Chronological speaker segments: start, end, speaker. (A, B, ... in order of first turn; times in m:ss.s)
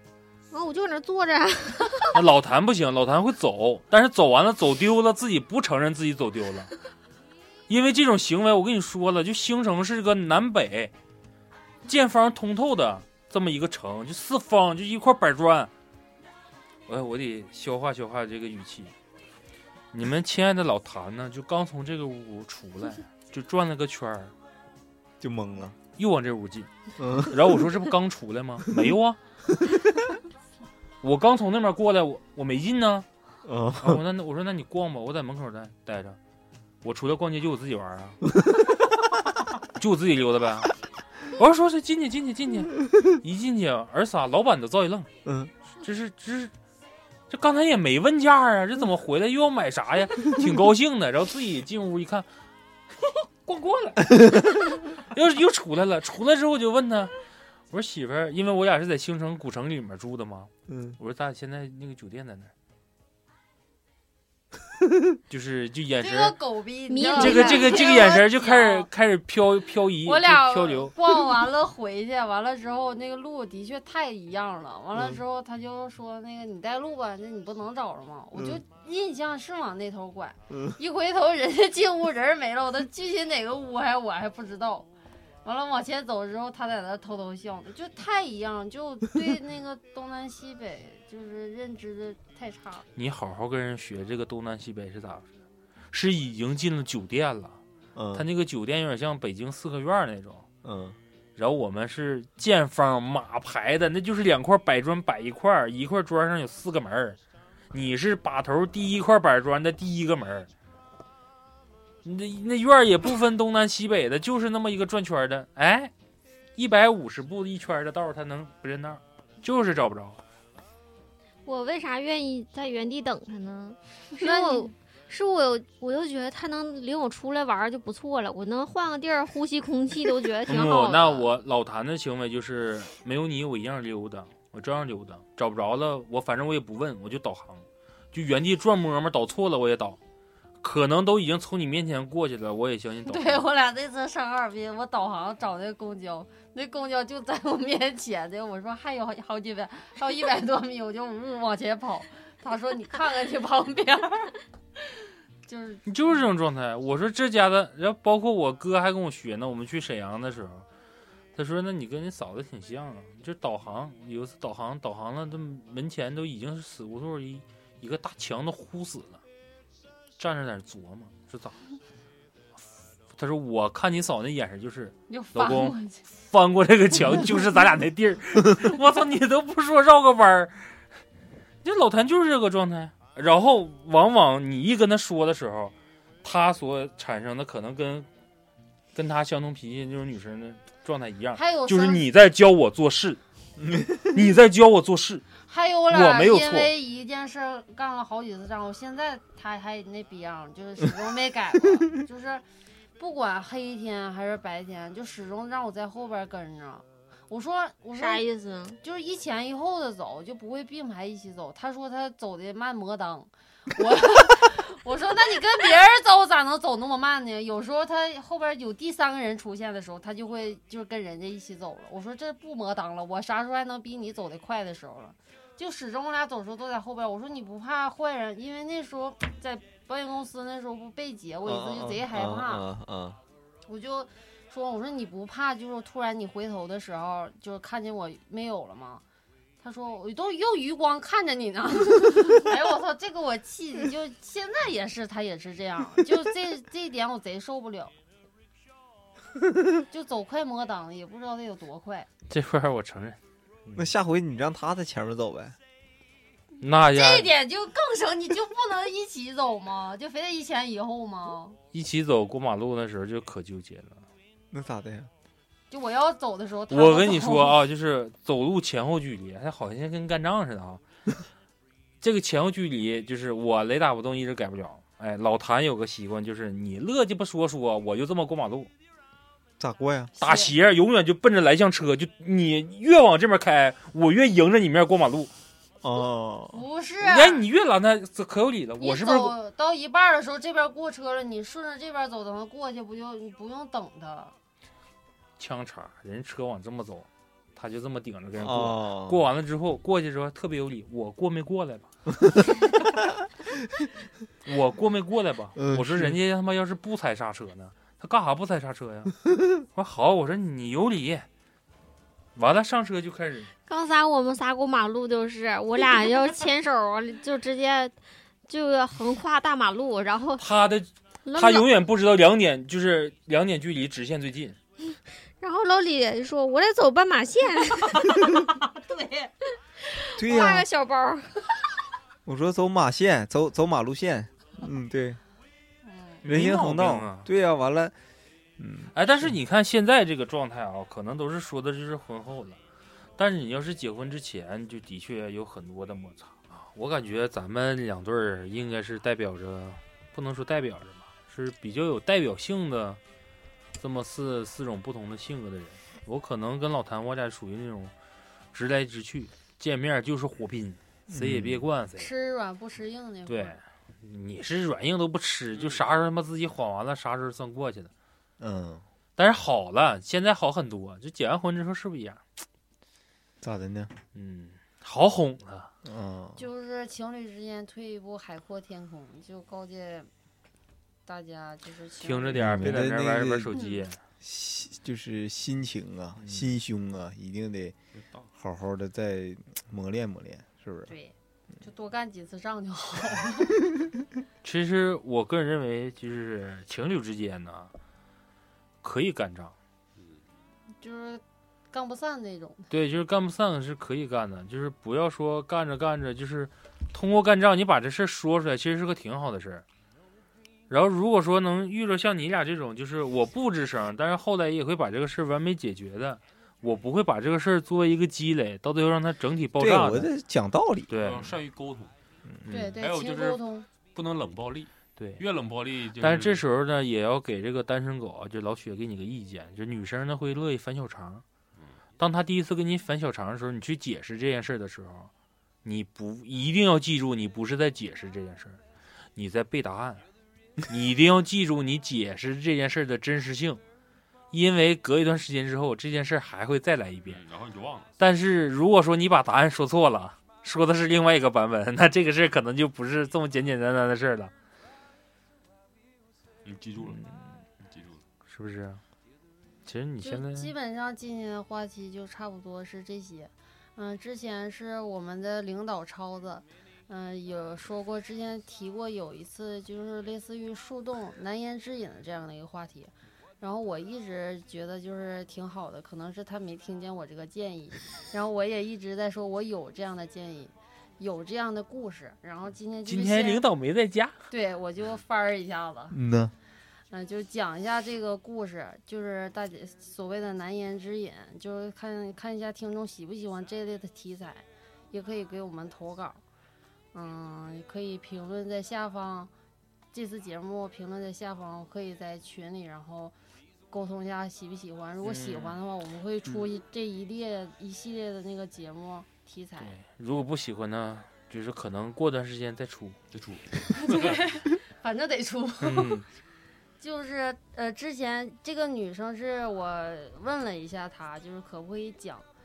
0:00.5-0:02.2 A
0:02.1-0:06.7 B
0:07.7-0:10.9 B
0:11.9-0:15.7 B
0:16.9-0:18.9 B
0:19.9-0:24.3 B
0:25.2-0:25.8 C
0:26.0-0:26.7 B
0:27.0-0:27.6 C
0:27.2-0:29.2 B
0:31.0-0:33.1 B
0:33.4-0:34.0 C
0:33.8-0:36.2 B
0:36.8-0:38.2 B
0:38.4-0:38.7 C
0:39.8-0:40.7 B
0:41.3-0:45.1 B
0:45.2-0:45.5 C
0:45.8-0:46.5 B
0:47.3-0:52.3 B
0:53.0-0:57.1 B
0:57.7-1:02.5 B
1:00.7-1:01.0 C
1:05.3-1:06.4 B
1:06.0-1:08.9 D
1:06.9-1:08.2 A
1:07.2-1:11.0 B
1:10.0-1:24.9 D
1:18.4-1:18.6 C
1:25.4-1:32.9 D
1:33.0-1:35.3 B
1:35.9-1:37.6 B
1:38.0-1:38.3 C
1:38.1-1:40.5 B
1:40.6-1:41.0 C
1:41.4-1:47.2 B
1:47.7-1:50.5 B
1:52.0-1:55.9 B
1:56.6-2:00.2 B
2:01.5-2:11.3 A
2:04.2-2:04.7 D
2:10.5-2:20.0 B
2:20.6-2:23.5 B
2:23.1-2:34.3 D
2:35.5-2:36.2 D
2:35.9-2:40.6 B
2:41.4-2:49.2 B
2:50.2-2:51.6 B
2:53.1-3:00.6 B
2:55.1-2:56.0 D
3:01.6-3:08.1 B
3:09.0-3:13.2 B
3:11.4-3:12.0 D
3:13.6-3:14.0 C
3:14.1-3:15.3 B
3:15.4-3:22.4 D
3:15.9-3:16.7 B
3:23.0-3:28.2 D
3:28.0-3:28.8 A
3:28.8-3:52.6 D
3:51.4-3:53.2 C
3:53.7-3:59.0 D
3:59.6-4:07.9 D
4:09.9-4:12.1 D
4:12.3-4:13.9 B
4:13.8-4:15.6 C
4:16.6-4:17.3 B
4:16.9-4:21.6 D
4:21.7-4:24.0 B
4:24.5-4:25.1 C
4:25.7-4:27.6 D
4:26.7-4:30.8 B
4:32.0-4:38.7 B
4:39.6-4:40.1 C
4:40.2-4:40.5 D
4:40.2-4:45.3 B
4:45.8-4:46.6 C
4:46.5-4:47.4 D
4:47.0-4:49.3 B
4:48.8-4:54.4 D
4:55.4-5:01.9 B
4:58.4-4:59.2 C
5:04.4-5:11.3 B
5:05.6-5:06.2 C
5:12.4-5:13.5 B
5:13.7-5:18.0 A
5:18.5-5:20.4 A
5:20.4-5:24.6 B
5:21.3-5:21.7 A
5:24.9-5:28.4 A
5:29.9-5:31.4 A
5:30.2-5:30.7 C
5:32.3-5:35.2 C
5:35.8-5:36.2 D
5:36.2-5:37.3 B
5:36.2-5:37.9 C
5:38.6-5:39.3 C
5:38.9-5:42.6 B
5:43.2-5:53.0 B
5:53.8-5:57.9 B
5:58.5-6:02.1 B
6:01.1-6:01.6 C
6:02.0-6:03.6 D
6:03.3-6:07.9 B
6:05.6-6:05.8 E
6:08.4-6:08.8 C
6:09.2-6:12.2 B
6:13.4-6:13.9 C
6:14.1-6:15.7 B
6:15.8-6:16.4 C
6:16.4-6:20.1 D
6:21.1-6:22.7 D
6:22.0-6:24.0 B
6:22.3-6:23.5 C
6:24.2-6:27.8 C
6:26.2-6:26.5 B
6:28.0-6:28.3 E
6:28.3-6:30.9 C
6:30.9-6:33.6 D
6:34.4-6:37.7 B
6:38.8-6:39.6 B
6:40.0-6:40.2 E
6:40.8-6:42.7 D
6:42.7-6:49.6 B
6:50.7-7:00.1 B
6:59.6-7:00.9 C
7:00.9-7:01.4 B
7:01.0-7:01.9 E
7:02.4-7:02.8 B
7:02.5-7:03.7 D
7:02.8-7:03.4 E
7:03.9-7:06.4 E
7:05.0-7:05.2 B
7:06.0-7:11.2 B
7:12.0-7:15.1 B
7:15.6-7:18.6 B
7:19.2-7:20.0 B
7:20.7-7:23.6 B
7:24.3-7:27.2 B
7:27.1-7:27.9 E
7:28.0-7:34.3 B
7:36.4-7:37.0 E
7:36.8-7:37.1 B
7:37.7-7:38.0 E
7:38.3-7:38.8 B
7:39.6-7:40.5 B
7:40.0-8:03.4 D
8:02.9-8:04.2 B
8:04.3-8:06.0 D
8:05.9-8:06.3 C
8:06.9-8:16.2 D
8:16.9-8:19.3 D
8:19.9-8:23.1 D
8:23.7-8:29.8 D
8:25.0-8:25.6 B
8:29.6-8:33.0 B
8:33.1-8:34.2 E
8:33.7-8:36.0 D
8:35.6-8:36.0 B
8:36.8-8:42.3 D